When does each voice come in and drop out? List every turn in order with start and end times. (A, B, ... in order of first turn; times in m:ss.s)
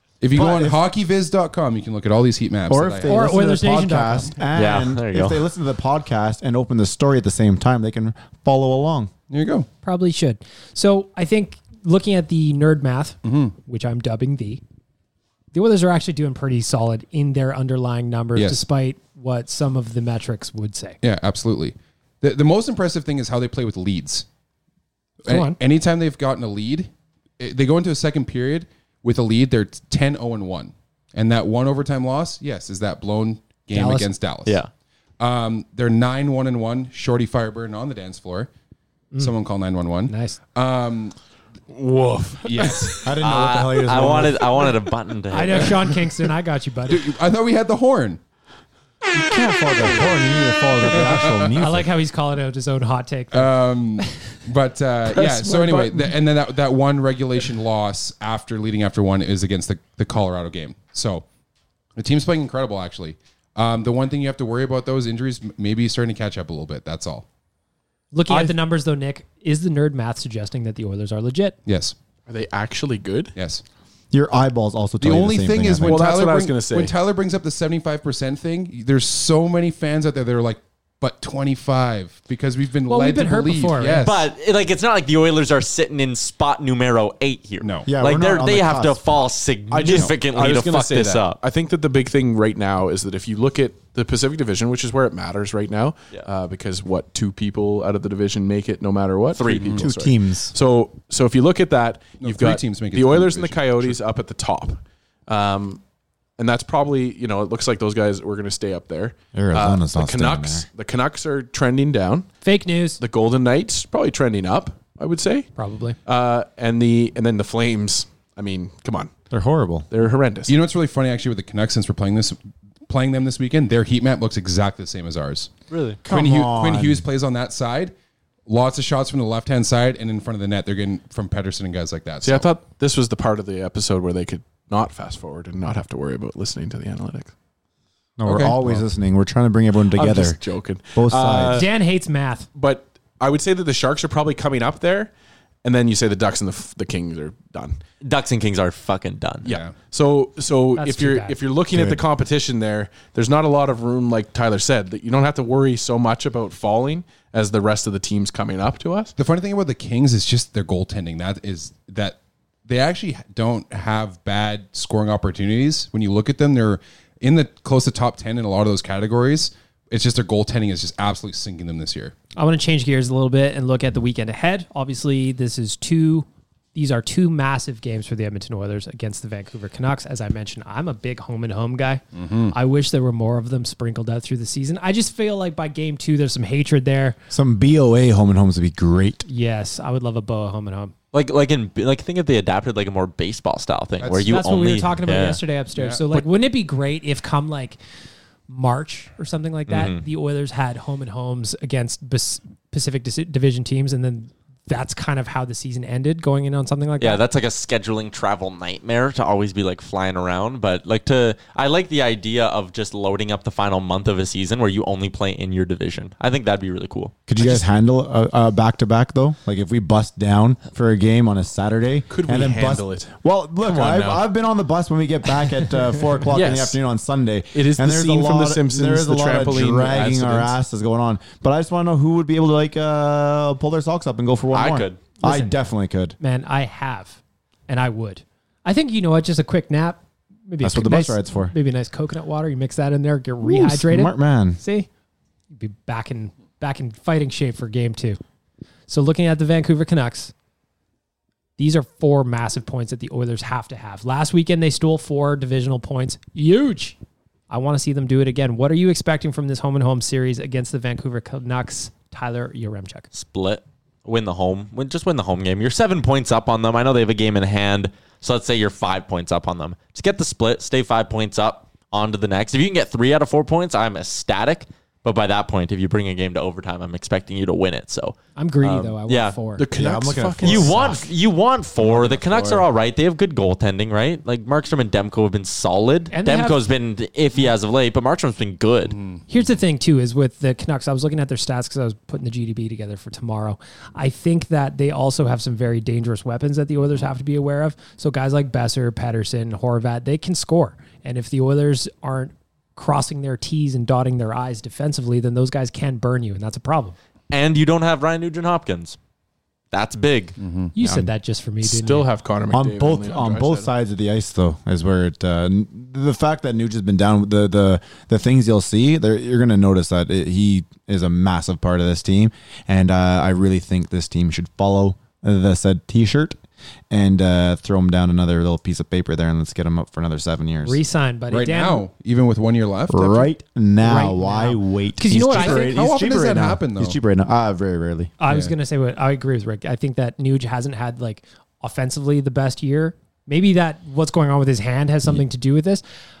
0:00.2-0:03.2 A
0:00.3-0:00.8 B
0:02.7-0:09.1 B
0:03.0-0:04.3 C
0:04.5-0:05.4 D
0:09.3-0:09.7 A
0:09.8-0:14.6 C
0:13.2-0:13.5 A
0:15.5-0:21.0 C
0:18.3-0:18.6 A
0:21.0-0:24.2 A
0:25.2-0:34.6 A
0:25.3-0:25.6 C
0:33.7-0:34.1 C
0:35.2-0:38.5 A
0:39.2-0:41.1 A
0:40.1-0:40.4 C
0:41.7-0:43.0 E
0:42.4-0:43.0 A
0:43.0-0:44.7 B
0:43.2-0:45.8 D
0:45.3-0:47.0 C
0:46.9-0:48.2 A
0:49.1-0:51.9 B
0:51.0-0:51.5 A
0:51.6-0:54.1 C
0:53.3-1:01.2 A
0:55.1-0:56.1 E
1:02.0-1:07.2 A
1:08.1-1:11.6 C
1:08.3-1:08.5 E
1:11.6-1:11.9 A
1:12.3-1:13.3 E
1:13.3-1:13.6 A
1:14.1-1:16.0 B
1:15.0-1:24.3 A
1:15.8-1:16.9 E
1:22.9-1:24.0 C
1:24.0-1:31.4 D
1:27.6-1:27.9 A
1:27.9-1:29.0 B
1:29.7-1:45.8 E
1:39.3-1:39.8 D
1:39.8-1:40.5 B
1:42.2-1:44.0 A
1:46.4-1:52.3 E
1:49.3-1:50.6 B
1:52.4-1:53.0 C
1:53.0-1:55.5 E
1:55.6-1:56.0 C
1:56.0-1:59.1 E
1:59.3-1:59.9 B
1:59.9-2:00.5 E
2:00.5-2:05.5 A
2:05.7-2:06.0 D
2:06.0-2:07.0 B
2:06.1-2:07.9 A
2:08.5-2:12.5 A
2:12.2-2:17.3 E
2:18.2-2:20.4 B
2:18.2-2:18.8 A
2:19.9-2:21.7 E
2:20.9-2:21.6 B
2:21.5-2:22.5 C
2:22.5-2:25.1 E
2:25.6-2:27.8 E
2:28.0-2:29.5 D
2:29.4-2:39.1 E
2:29.4-2:29.7 A
2:30.8-2:31.4 C
2:31.7-2:32.0 B
2:39.2-2:52.1 A
2:52.4-3:07.2 C
3:02.1-3:02.6 A
3:07.3-3:09.3 B
3:09.3-3:10.9 C
3:11.1-3:15.4 D
3:14.0-3:14.4 A
3:14.2-3:17.8 C
3:15.7-3:16.2 A
3:18.5-3:27.2 C
3:19.7-3:20.0 D
3:27.0-3:37.2 D
3:37.3-3:56.2 B
3:42.1-3:44.2 E
3:46.3-3:46.8 E
3:47.5-3:50.6 E
3:54.5-3:55.0 D
3:55.2-3:55.5 C
3:56.2-4:04.9 C
4:00.6-4:01.5 B
4:03.4-4:04.6 B
4:05.5-4:08.2 C
4:08.9-4:10.3 C
4:11.6-4:17.0 C
4:17.5-4:23.1 C
4:23.1-4:39.4 D
4:38.4-4:39.6 C
4:39.6-4:41.0 E
4:39.8-4:41.0 B
4:40.4-4:48.9 D
4:41.8-4:42.6 E
4:46.1-4:46.6 C
4:48.8-4:49.2 A
4:49.3-5:07.0 C
5:07.3-5:09.0 D
5:09.7-5:10.4 D
5:10.4-5:10.7 A
5:10.7-5:12.1 C
5:11.6-5:13.7 E
5:12.5-5:26.4 B
5:26.9-5:30.8 B
5:30.6-5:31.8 C
5:31.3-5:33.3 A
5:32.9-5:38.1 B
5:33.8-5:35.8 C
5:35.1-5:37.0 A
5:38.2-5:45.8 C
5:38.3-5:38.5 A